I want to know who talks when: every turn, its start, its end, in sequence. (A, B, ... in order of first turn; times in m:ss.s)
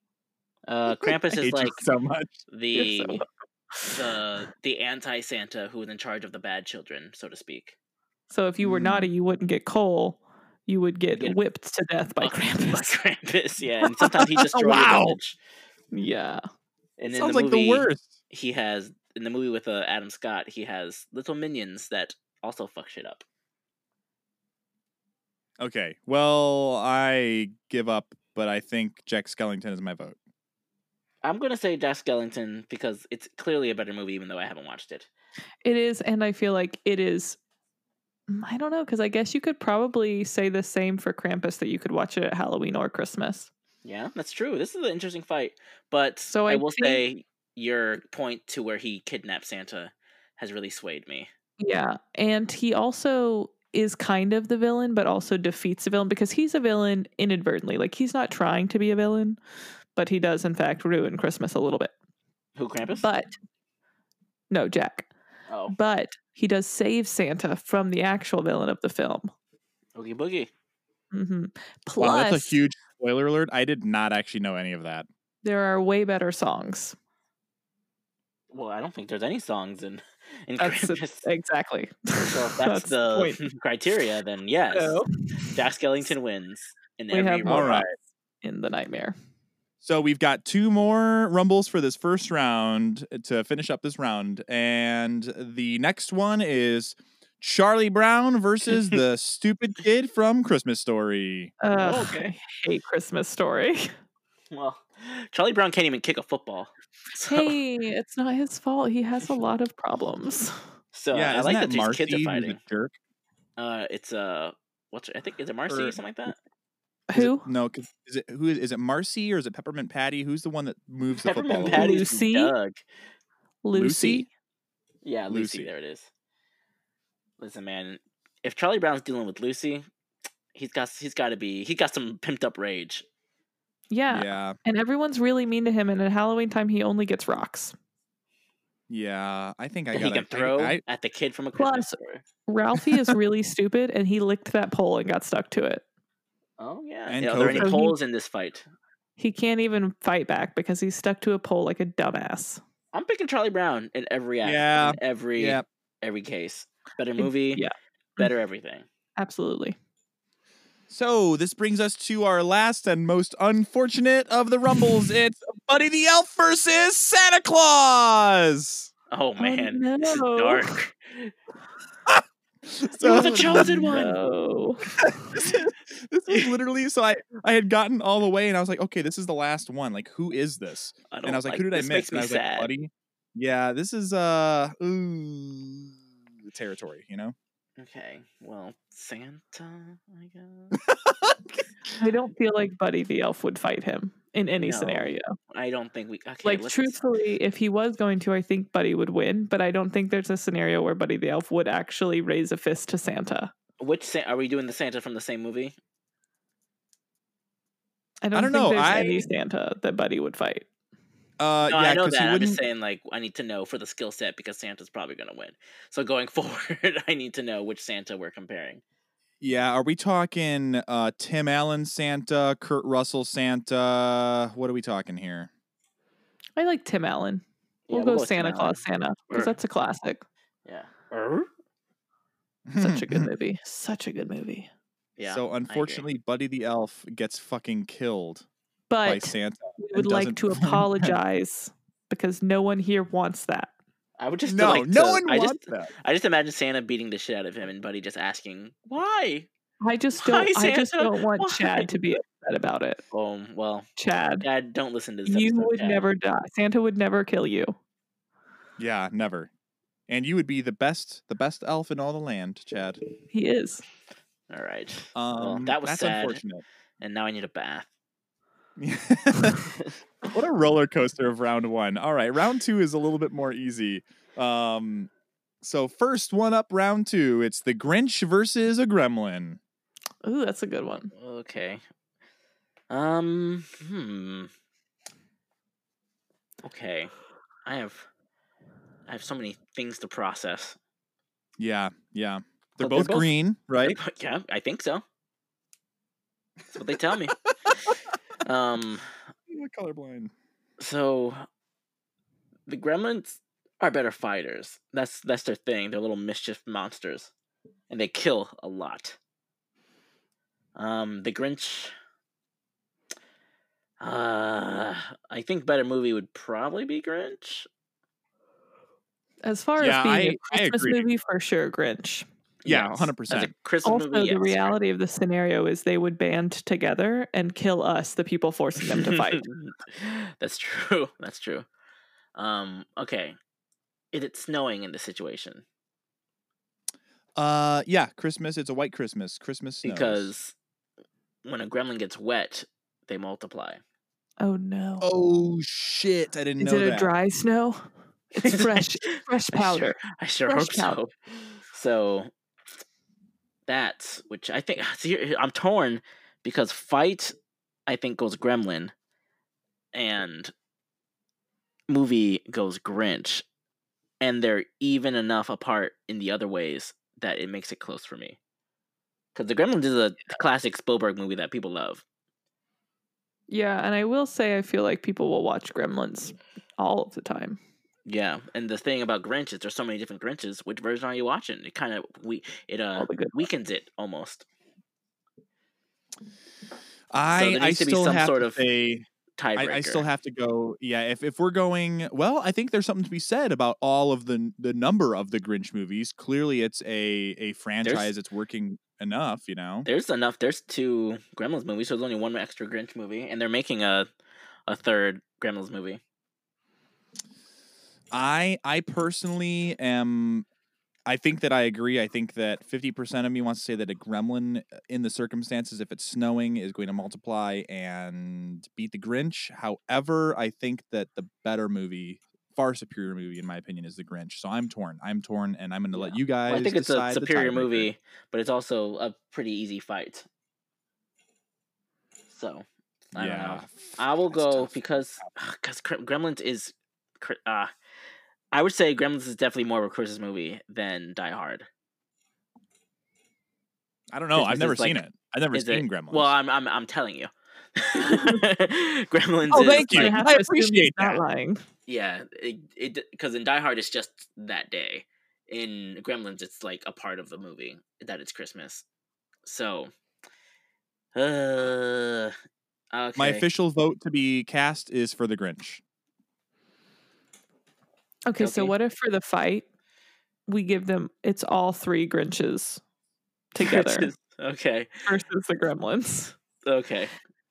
0:00.7-0:01.8 A
0:01.0-0:02.4 B
0:02.5-0:03.2 A
0:02.7-0:03.2 C
0:03.9-0:07.8 A
0:08.3-0:13.0 C
0:08.6-0:09.1 B
0:12.2-0:15.4 A
0:14.0-0:15.2 B
0:15.9-0:16.4 C
0:17.0-0:23.2 A
0:17.1-0:18.1 B
0:25.6-0:30.2 B
0:31.2-0:35.1 A
0:35.6-0:37.4 C
0:38.3-0:43.5 C
0:43.8-0:51.3 A
0:46.3-0:47.0 C
0:51.6-0:59.4 C
1:00.0-1:01.9 C
1:02.6-1:03.1 A
1:03.0-1:03.3 C
1:04.5-1:05.1 C
1:05.5-1:05.7 A
1:05.7-1:09.3 C
1:09.9-1:10.5 A
1:11.1-1:12.5 C
1:12.0-1:15.1 B
1:15.4-1:17.0 C
1:18.5-1:21.2 A
1:20.6-1:23.4 C
1:22.3-1:27.8 A
1:24.7-1:25.6 C
1:27.1-1:27.9 C
1:27.4-1:27.9 B
1:28.4-1:29.2 C
1:29.8-1:41.5 B
1:41.6-1:43.9 C
1:41.7-1:42.3 A
1:44.5-1:47.6 A
1:47.2-1:50.6 C
1:50.9-1:52.6 A
1:51.1-1:52.9 B
1:53.6-1:56.4 A
1:55.7-1:56.0 B
1:57.1-1:57.4 C
1:57.1-2:01.9 B
2:01.2-2:02.8 A
2:01.6-2:02.5 C
2:03.6-2:04.3 C
2:03.7-2:04.3 B
2:05.0-2:06.1 A
2:05.3-2:05.7 B
2:07.4-2:09.9 A
2:10.5-2:13.0 A
2:13.9-2:17.7 C
2:14.1-2:14.6 B
2:18.9-2:20.8 B
2:19.9-2:22.2 A
2:21.6-2:21.9 C
2:22.5-2:25.8 C
2:26.6-2:28.7 A
2:27.1-2:27.8 B
2:27.6-2:27.9 C
2:29.2-2:32.6 C
2:32.9-2:37.6 A
2:34.4-2:35.6 B
2:37.2-2:38.3 C
2:38.2-2:38.9 A
2:39.2-2:39.8 C
2:40.9-2:48.9 B
2:49.1-2:51.3 A
2:49.4-2:50.8 C
2:52.1-2:54.1 B
2:53.0-2:54.2 A
2:53.0-2:55.0 C
2:55.0-3:07.3 B
3:01.1-3:02.7 A
3:07.8-3:10.7 A
3:10.7-3:11.6 B
3:12.0-3:15.3 C
3:14.6-3:17.0 A
3:16.4-3:23.5 C
3:23.8-3:25.8 A
3:28.2-3:30.6 C
3:28.3-3:29.3 B
3:31.4-3:32.6 B
3:31.7-3:38.8 A
3:39.4-3:45.5 B
3:46.6-3:50.2 C
3:47.9-3:49.6 A
3:50.6-3:51.5 A
3:52.7-3:53.3 B
3:52.8-3:54.7 C
3:55.2-3:56.0 A
3:55.3-3:58.4 B
3:58.9-4:03.7 C
3:59.0-4:01.2 B
4:04.2-4:09.5 A
4:04.5-4:05.9 B
4:09.8-4:13.0 C
4:10.2-4:12.0 A
4:13.1-4:13.9 A
4:14.0-4:14.4 C
4:14.4-4:16.0 A
4:15.3-4:17.8 C
4:18.8-4:19.5 B
4:20.1-4:23.0 B
4:23.3-4:23.8 C
4:24.5-4:26.4 A
4:25.1-4:26.6 B
4:27.0-4:27.9 A
4:28.8-4:29.7 B
4:30.3-4:35.1 B
4:35.6-4:39.6 B
4:40.2-4:41.1 C
4:41.1-4:41.8 A
4:42.9-4:44.5 A
4:46.6-4:47.1 A
4:47.6-4:48.1 A
4:49.1-4:50.8 A
4:51.6-4:54.0 B
4:52.8-4:55.0 A
4:56.7-4:57.3 A
4:58.4-4:59.0 A
4:59.5-5:00.3 B
5:00.8-5:01.4 A
5:02.7-5:07.3 A
5:07.9-5:09.2 A
5:10.7-5:11.9 A
5:14.0-5:17.7 A
5:19.4-5:22.3 C
5:19.8-5:21.0 B
5:22.6-5:24.8 A
5:22.6-5:23.5 B
5:23.8-5:29.4 C
5:28.8-5:31.7 A
5:32.4-5:33.4 A
5:34.1-5:35.6 A
5:37.4-5:40.3 B
5:39.8-5:40.6 A
5:41.4-5:43.8 A
5:44.4-5:45.1 C
5:45.0-5:47.1 B
5:46.6-5:51.0 C
5:48.4-5:52.3 A
5:53.7-5:57.3 A
5:57.9-5:58.9 A
5:59.9-6:00.5 A
6:01.9-6:03.4 A
6:04.2-6:08.4 A
6:09.3-6:12.0 A
6:13.5-6:17.6 C
6:18.0-6:24.4 A
6:23.0-6:23.4 C
6:27.1-6:39.9 B
6:27.4-6:28.6 A
6:29.4-6:30.0 A
6:37.8-6:38.1 A
6:39.9-6:44.1 A
6:44.7-6:46.0 A
6:48.1-6:50.4 B
6:51.0-7:07.9 B
7:05.9-7:10.3 A
7:12.3-7:17.7 A
7:13.1-7:15.2 B
7:18.5-7:21.7 A
7:24.1-7:26.3 B
7:24.4-7:25.0 A
7:25.5-7:30.2 A
7:29.5-7:31.2 B
7:29.7-7:31.6 C
7:31.9-7:38.8 A
7:39.4-7:39.9 A
7:41.1-7:42.4 A
7:42.9-7:43.4 A
7:43.2-7:45.8 B
7:48.3-7:49.6 C
7:48.4-7:48.7 A
7:50.5-7:52.8 C
7:53.5-7:54.1 C
7:53.6-7:55.0 A
7:55.0-7:56.3 C
7:56.6-7:57.1 A